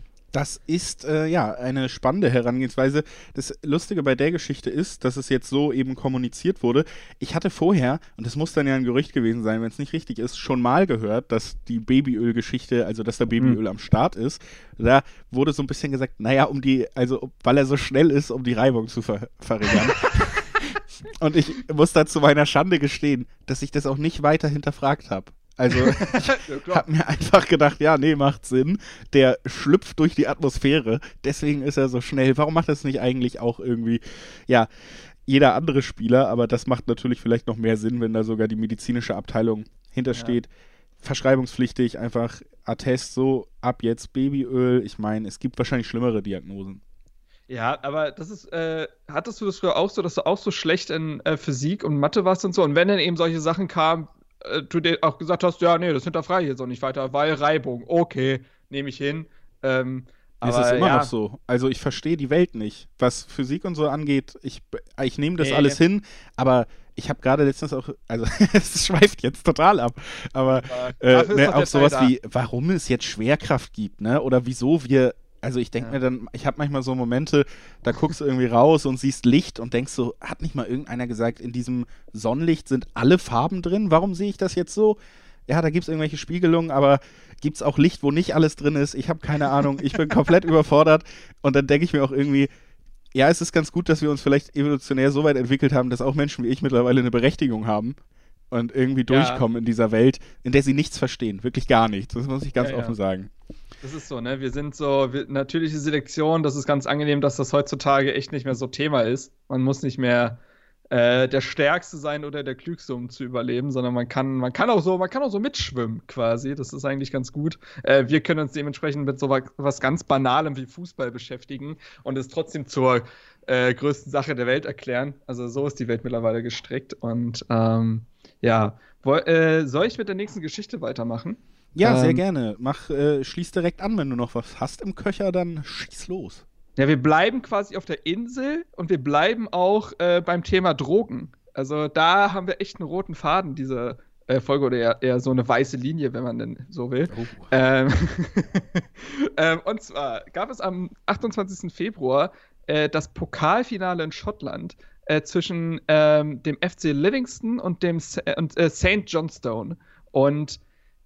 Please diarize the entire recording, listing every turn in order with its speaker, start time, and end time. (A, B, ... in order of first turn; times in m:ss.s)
0:00.3-0:34.7 A
0:25.8-0:26.8 B
0:35.3-0:40.5 A
0:41.0-0:46.8 A
0:47.5-1:01.1 B
1:00.4-1:32.5 A
1:05.4-1:05.8 B
1:10.5-1:12.1 B
1:33.1-1:38.0 A
1:38.5-1:43.3 A
1:39.1-1:39.4 B
1:42.6-1:43.0 B
1:43.8-1:50.4 B
1:50.9-2:12.2 B
2:11.8-2:16.4 A
2:16.8-2:40.6 B
2:27.1-2:27.5 A